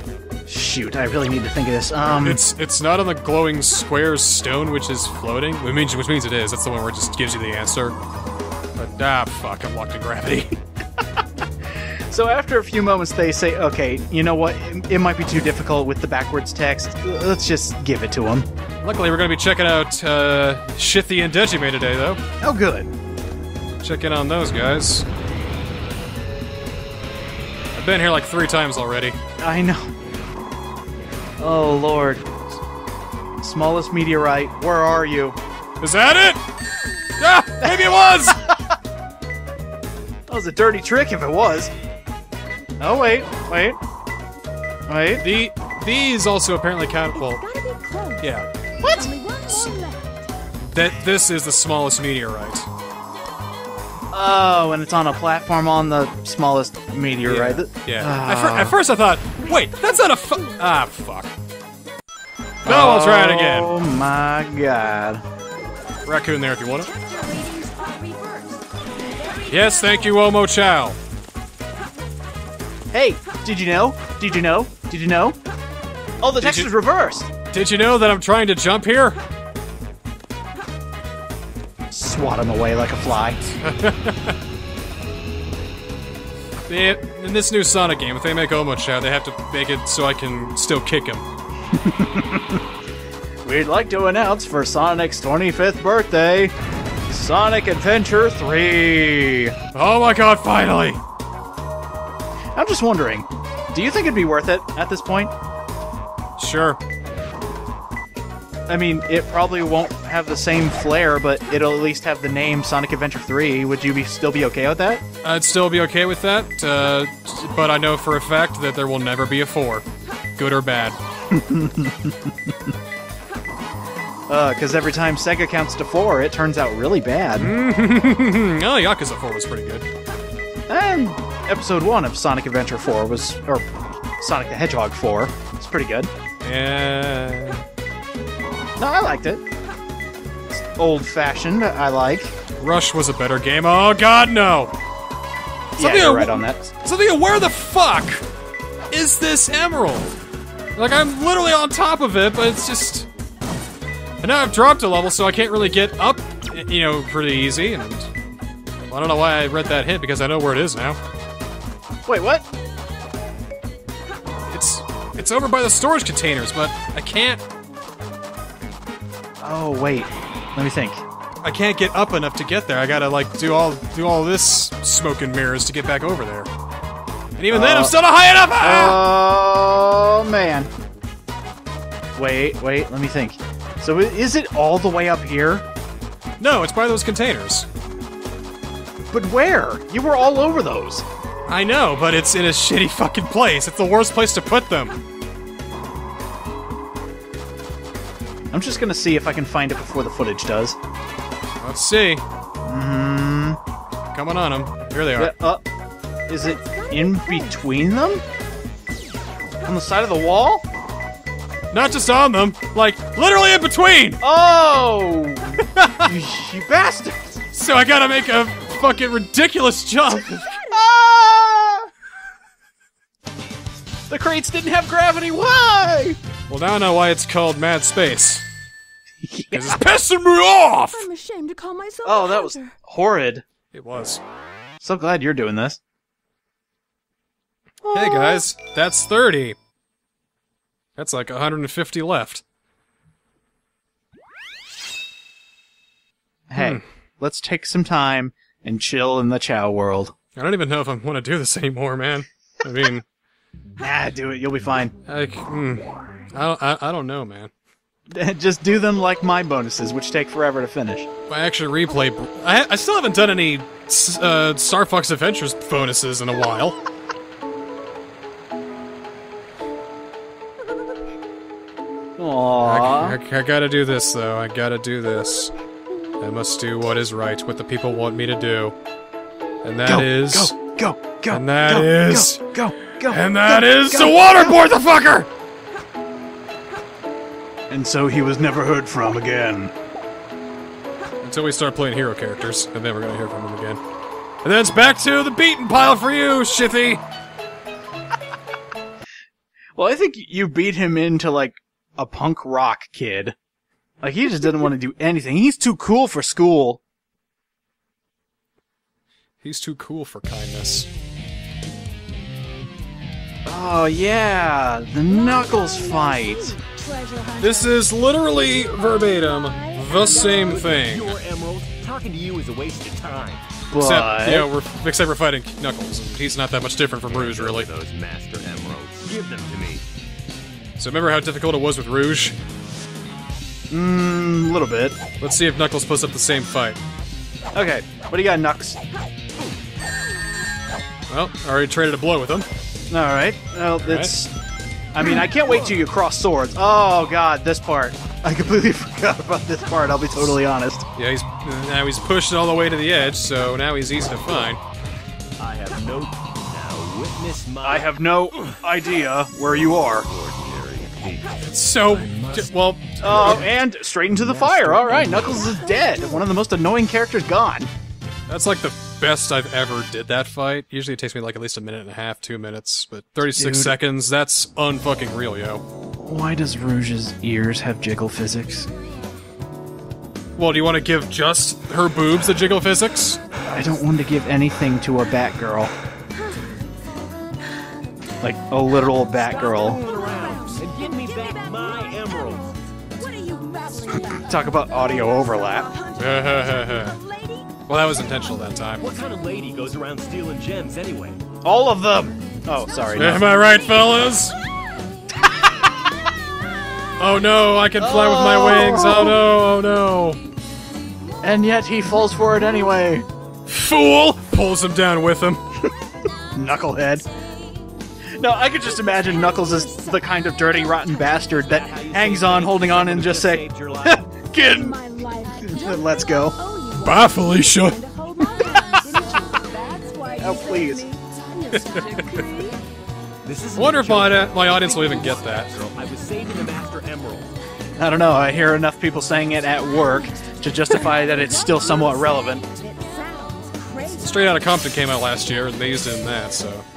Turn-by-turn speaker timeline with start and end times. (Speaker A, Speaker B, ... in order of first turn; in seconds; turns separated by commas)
Speaker A: 0.5-2.4, Speaker B: 2.0-8.0, Speaker B: 8.8-10.6, Speaker A: 12.1-18.5, Speaker B: 18.8-22.2, Speaker A: 22.4-22.9, Speaker B: 23.8-25.1, Speaker B: 27.7-29.2, Speaker A: 29.4-29.9, Speaker A: 31.4-32.2, Speaker A: 33.4-35.4, Speaker B: 35.8-36.4, Speaker B: 37.2-38.4, Speaker A: 37.6-38.6, Speaker A: 40.3-41.7, Speaker A: 42.8-43.8, Speaker A: 44.9-45.2, Speaker B: 45.2-47.4, Speaker C: 47.1-48.3, Speaker B: 48.2-48.5, Speaker A: 48.8-49.1, Speaker C: 48.8-50.3, Speaker B: 50.6-52.7, Speaker A: 54.1-58.8, Speaker B: 57.2-61.3, Speaker B: 62.6-63.7, Speaker A: 62.6-65.2, Speaker B: 66.0-66.9, Speaker C: 66.8-70.3, Speaker B: 69.5-71.0, Speaker A: 72.9-75.4, Speaker A: 76.2-77.3, Speaker B: 76.4-76.7, Speaker B: 77.5-79.2, Speaker A: 81.9-83.4, Speaker B: 83.6-84.3, Speaker B: 86.7-91.2, Speaker A: 91.7-92.6, Speaker A: 93.4-96.5, Speaker A: 97.1-99.5, Speaker B: 99.7-101.0, Speaker A: 102.5-105.3, Speaker B: 106.4-106.8, Speaker A: 108.7-115.0, Speaker B: 115.2-119.8, Speaker B: 120.4-121.0, Speaker A: 121.3-122.5, Speaker A: 124.3-127.5, Speaker B: 127.4-129.9, Speaker A: 130.7-136.1, Speaker B: 136.4-137.6, Speaker A: 138.8-139.4, Speaker A: 140.5-142.3, Speaker B: 142.6-144.7, Speaker A: 145.8-146.7, Speaker B: 145.8-148.2, Speaker B: 148.9-150.1, Speaker B: 150.8-153.1, Speaker B: 154.2-158.1, Speaker B: 158.9-161.0, Speaker A: 162.1-162.4, Speaker B: 164.4-167.4, Speaker A: 169.4-171.0, Speaker B: 171.4-176.5, Speaker B: 177.3-179.0, Speaker A: 177.5-177.9, Speaker A: 178.6-180.7, Speaker A: 182.2-185.6, Speaker B: 186.4-187.7, Speaker A: 189.1-191.0, Speaker B: 191.5-195.0, Speaker A: 198.5-200.8, Speaker B: 201.6-202.2, Speaker A: 202.7-203.6, Speaker B: 204.1-205.3, Speaker A: 205.2-205.6, Speaker A: 206.3-208.2, Speaker C: 206.4-207.6, Speaker A: 209.6-210.6, Speaker B: 211.7-214.2, Speaker A: 214.2-217.4, Speaker B: 215.8-216.1, Speaker B: 217.5-220.6, Speaker A: 220.6-221.9, Speaker A: 224.1-226.2, Speaker B: 226.5-228.4, Speaker A: 229.2-229.8, Speaker B: 229.5-231.1, Speaker C: 230.9-232.7, Speaker A: 232.0-233.4, Speaker B: 233.7-234.2, Speaker A: 234.8-235.8, Speaker A: 237.8-238.5, Speaker B: 237.9-239.6, Speaker B: 240.9-242.4, Speaker A: 246.5-250.1, Speaker B: 246.6-246.8, Speaker B: 250.3-253.0, Speaker A: 253.8-254.9, Speaker B: 255.1-257.5, Speaker A: 258.1-261.1, Speaker B: 261.3-266.8, Speaker A: 272.2-273.2, Speaker B: 272.6-275.5, Speaker B: 276.2-278.8, Speaker B: 279.6-280.5, Speaker A: 279.9-284.6, Speaker B: 281.3-282.4, Speaker B: 282.9-285.3, Speaker A: 287.7-289.7, Speaker B: 291.2-293.8, Speaker B: 294.4-297.0, Speaker A: 299.8-303.3, Speaker A: 304.0-306.8, Speaker B: 309.4-310.9, Speaker A: 313.4-316.6, Speaker C: 315.1-320.7, Speaker B: 317.4-321.1, Speaker D: 320.1-323.4, Speaker A: 323.7-324.5, Speaker B: 323.8-327.7, Speaker D: 327.1-329.8, Speaker B: 330.8-332.4, Speaker A: 333.7-335.0, Speaker B: 335.2-336.8, Speaker A: 337.5-338.8, Speaker B: 341.1-342.5, Speaker A: 342.9-344.3, Speaker B: 343.8-344.1, Speaker A: 344.9-350.9, Speaker B: 351.0-354.6, Speaker D: 355.4-358.6, Speaker A: 357.6-360.1, Speaker D: 359.7-362.5, Speaker B: 361.5-363.4, Speaker A: 363.0-367.7, Speaker D: 363.0-363.5, Speaker D: 364.1-365.5, Speaker C: 365.2-366.4, Speaker B: 368.3-375.6, Speaker A: 373.3-373.8, Speaker A: 376.0-378.7, Speaker B: 380.4-383.2, Speaker A: 383.5-385.7, Speaker A: 388.2-389.8, Speaker C: 389.1-394.8, Speaker D: 389.6-392.6, Speaker A: 394.0-395.7, Speaker C: 395.5-398.6, Speaker B: 396.0-397.0, Speaker B: 397.7-398.9, Speaker D: 398.8-401.2, Speaker A: 401.4-403.2, Speaker B: 402.9-404.4, Speaker B: 407.0-410.2, Speaker A: 407.8-409.2, Speaker A: 411.2-413.0, Speaker B: 413.5-415.4, Speaker A: 416.3-417.1, Speaker A: 418.2-424.8, Speaker C: 418.9-420.0, Speaker C: 420.8-421.2, Speaker D: 421.3-424.1, Speaker C: 424.4-432.6, Speaker A: 425.4-426.4, Speaker B: 426.8-427.8, Speaker A: 430.2-430.8, Speaker B: 431.6-432.2, Speaker D: 433.2-437.3, Speaker B: 433.5-435.5, Speaker A: 437.8-442.4, Speaker C: 439.8-444.4, Speaker B: 444.0-446.6